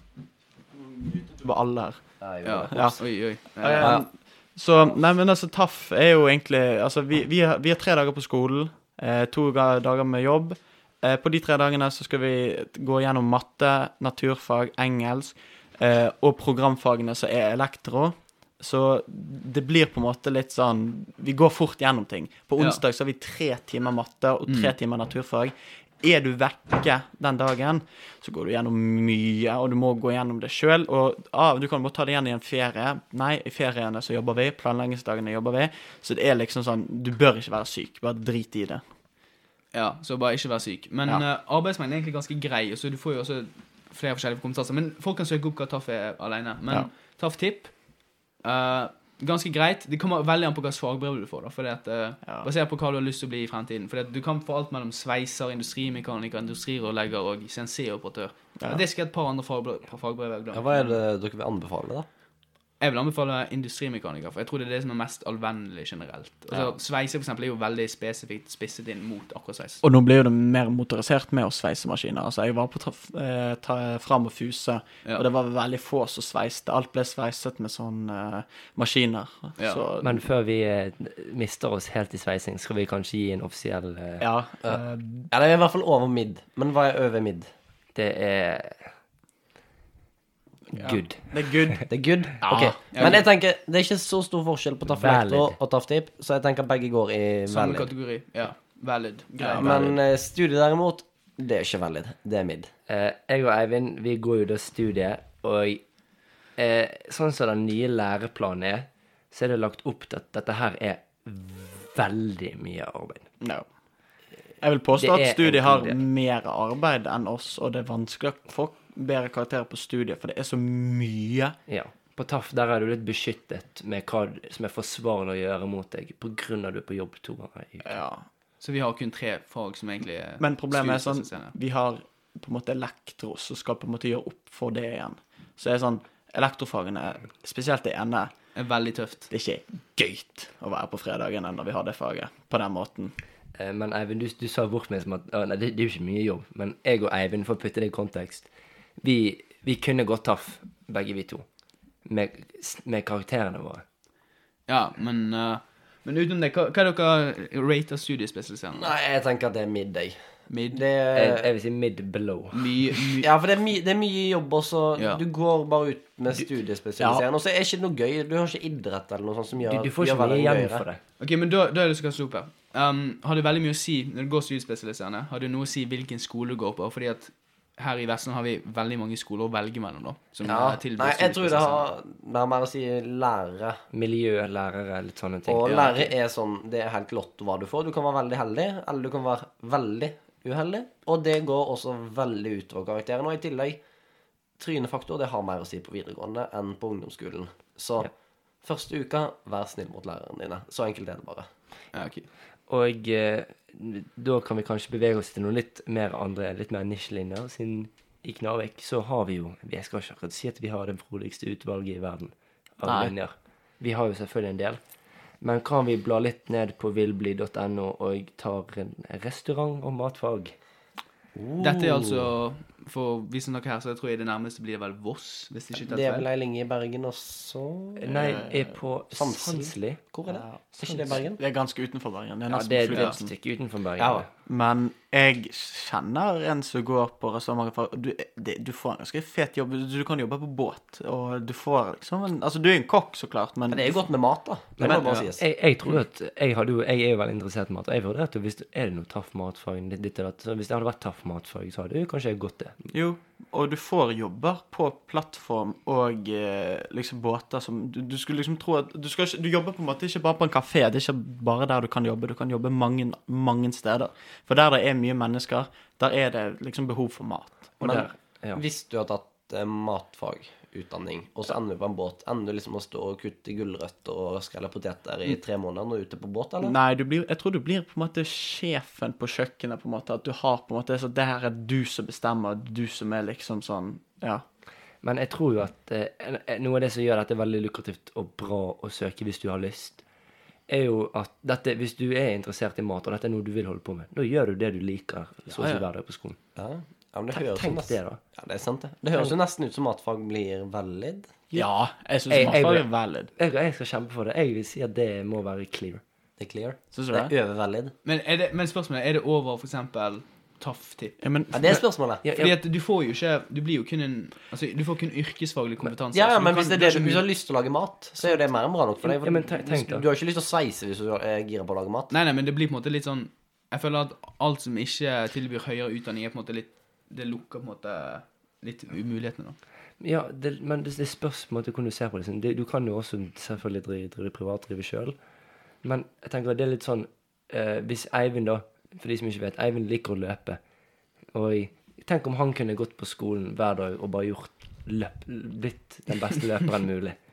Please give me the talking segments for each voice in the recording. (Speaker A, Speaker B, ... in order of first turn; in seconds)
Speaker A: 0.7-2.0, 2.7-38.8, 69.8-80.2, 84.2-85.3, 90.7-93.2, 99.3-100.0, 113.4-113.7, 114.6-121.5, 127.8-128.2, 130.4-138.3, 139.3-143.1, 167.0-167.2, 212.8-213.1, 228.1-228.7, 230.3-233.3, 234.5-244.1, 244.8-245.3, 252.9-267.8, 276.6-284.4, 295.5-295.9, 301.5-303.3, 306.9-307.3, 311.2-311.8
Speaker B: 2.2-3.0, 3.8-4.0, 60.5-62.1, 84.6-87.5, 91.9-97.9, 99.6-102.7, 158.8-160.2, 160.7-161.5, 163.2-170.8, 180.4-183.8, 185.5-193.8, 194.6-198.1, 198.6-201.5, 221.3-222.3, 225.8-228.2, 229.1-231.4, 234.0-234.3, 243.7-245.4, 267.8-276.8, 296.6-301.5, 306.4-307.9, 311.5-312.2, 316.1-322.1
Speaker C: 2.4-3.9, 24.5-24.7, 39.7-47.8, 48.4-61.0, 62.8-69.8, 92.9-93.2, 97.5-99.7, 128.6-131.5, 138.6-139.3, 154.7-158.9, 160.5-160.8, 162.5-163.3, 165.0-165.2, 171.2-181.9, 185.7-186.0, 201.9-202.3, 221.6-226.3, 232.9-233.2, 308.1-311.2, 312.4-317.2, 322.1-329.6
Speaker D: 80.0-84.3, 88.0-88.9, 90.7-91.8, 94.9-95.6, 102.9-105.8, 106.6-113.3, 115.0-116.0, 121.7-128.0, 143.6-148.5, 149.0-151.4, 152.1-153.8, 161.1-162.7, 169.7-171.0, 183.9-186.1, 202.7-214.8, 215.4-220.6, 228.0-230.0, 232.5-234.3, 244.8-252.8, 267.8-268.6, 285.0-290.0, 290.7-296.4, 297.3-298.2, 302.3-306.0, 312.2-312.6, 319.0-320.1, 330.0-335.2, 335.8-340.6, 341.3-347.2